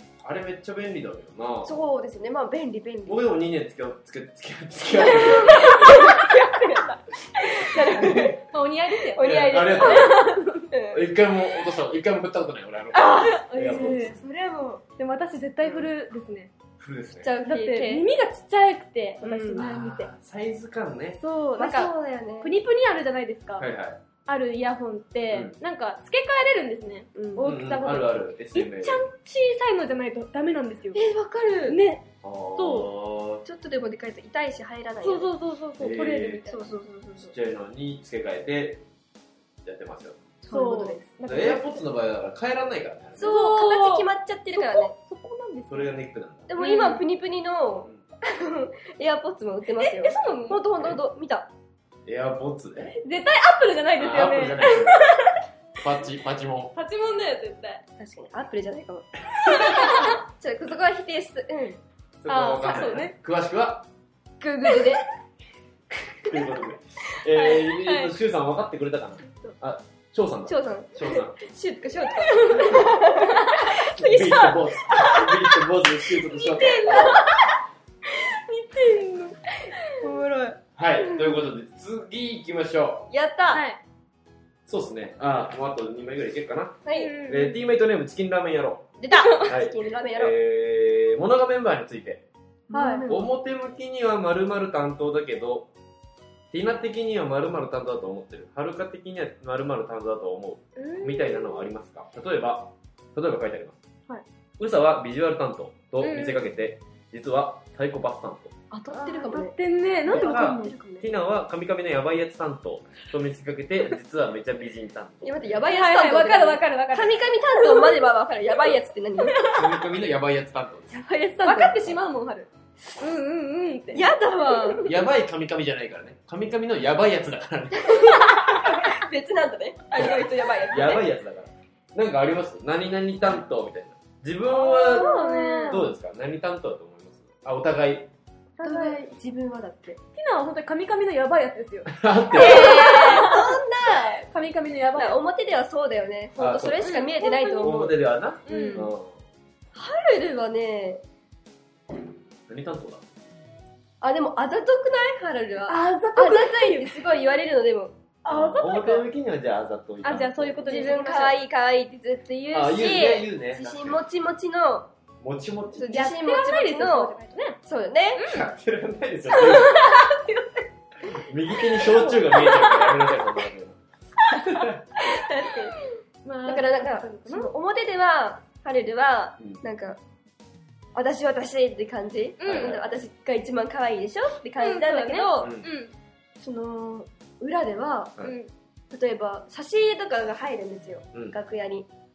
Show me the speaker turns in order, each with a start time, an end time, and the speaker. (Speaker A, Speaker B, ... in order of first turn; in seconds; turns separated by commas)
Speaker A: 0.2-1.8, Speaker B: 1.6-3.2, Speaker A: 3.1-5.9, Speaker B: 4.9-8.4, Speaker C: 5.7-6.1, Speaker A: 7.8-8.4, Speaker C: 8.4-10.7, Speaker B: 9.1-11.2, Speaker A: 9.2-10.2, Speaker A: 10.9-14.2, Speaker B: 12.9-14.8, Speaker C: 13.1-14.2, Speaker C: 15.0-16.5, Speaker A: 16.8-17.3, Speaker B: 17.2-18.1, Speaker C: 17.5-20.1, Speaker B: 19.2-19.6, Speaker A: 19.6-21.2, Speaker C: 21.2-23.7, Speaker B: 21.6-22.5, Speaker A: 23.6-24.0, Speaker C: 24.3-31.0, Speaker B: 27.1-27.5, Speaker A: 27.4-29.1, Speaker B: 30.9-31.8, Speaker C: 31.7-32.9, Speaker A: 32.2-33.4, Speaker B: 33.5-35.3, Speaker C: 35.0-36.7, Speaker A: 35.8-36.5, Speaker B: 36.5-37.3, Speaker A: 37.2-38.8, Speaker A: 39.6-40.2, Speaker B: 40.4-41.1, Speaker C: 40.5-41.8, Speaker A: 41.3-43.3, Speaker B: 43.2-44.9, Speaker C: 43.2-46.0, Speaker A: 45.7-46.5, Speaker B: 46.5-51.5, Speaker C: 46.6-47.0, Speaker C: 49.8-50.6, Speaker A: 52.0-53.0, Speaker C: 53.0-55.4, Speaker A: 54.0-55.1, Speaker A: 55.8-56.8, Speaker C: 56.8-57.8, Speaker B: 58.0-61.8, Speaker C: 59.4-60.2, Speaker A: 62.2-63.9, Speaker C: 62.3-63.1, Speaker B: 64.4-65.0, Speaker A: 66.2-71.4, Speaker C: 67.3-68.1, Speaker B: 70.5-75.3, Speaker C: 72.2-73.7, Speaker A: 73.9-77.3, Speaker C: 76.3-80.0, Speaker B: 79.9-80.6, Speaker A: 80.8-83.1, Speaker B: 83.1-83.6, Speaker C: 83.5-83.8, Speaker A: 84.7-88.9, Speaker B: 86.8-87.1, Speaker C: 87.0-87.6, Speaker B: 89.0-90.3, Speaker C: 89.2-89.4, Speaker A: 89.4-92.2, Speaker B: 92.7-93.3, Speaker C: 92.7-93.0, Speaker A: 93.1-95.7, Speaker A: 96.5-103.8, Speaker C: 100.8-101.7, Speaker A: 104.6-108.5, Speaker C: 106.0-106.5, Speaker B: 108.7-111.1, Speaker C: 108.9-110.7, Speaker A: 110.1-115.5, Speaker B: 115.2-119.6, Speaker C: 115.7-118.1, Speaker C: 119.2-119.7, Speaker A: 119.5-120.9, Speaker B: 120.9-121.9, Speaker C: 121.4-124.8, Speaker B: 123.9-124.9, Speaker A: 124.8-128.8, Speaker B: 127.8-131.1, Speaker A: 129.9-135.2, Speaker B: 134.5-135.8, Speaker C: 134.6-135.9, Speaker A: 135.7-138.1, Speaker C: 138.6-139.1, Speaker B: 138.6-140.0, Speaker C: 140.2-143.6, Speaker A: 141.9-143.0, Speaker B: 142.3-144.3, Speaker C: 144.3-145.2, Speaker B: 145.0-148.9, Speaker A: 146.4-147.0, Speaker C: 146.8-147.8, Speaker A: 147.6-149.2, Speaker C: 148.5-148.9, Speaker B: 149.8-151.0, Speaker A: 152.5-153.0, Speaker B: 154.0-158.0, Speaker C: 155.7-157.3, Speaker C: 158.2-159.1, Speaker A: 158.3-161.0, Speaker C: 160.0-161.4, Speaker B: 160.7-164.9, Speaker A: 162.5-164.0, Speaker A: 165.2-165.9, Speaker B: 165.8-168.2, Speaker C: 165.9-167.6, Speaker C: 168.2-168.5, Speaker A: 168.3-169.9, Speaker C: 169.3-170.6, Speaker A: 171.1-173.8, Speaker C: 171.7-173.1, Speaker C: 174.3-174.7, Speaker A: 174.3-174.8, Speaker B: 175.0-175.8, Speaker C: 176.2-177.5, Speaker B: 176.4-180.0, Speaker B: 180.9-185.6, Speaker C: 182.4-182.8, Speaker A: 182.5-182.8, Speaker C: 184.6-185.9, Speaker A: 185.4-185.7, Speaker B: 186.4-188.2, Speaker C: 188.2-188.5, Speaker B: 188.9-191.9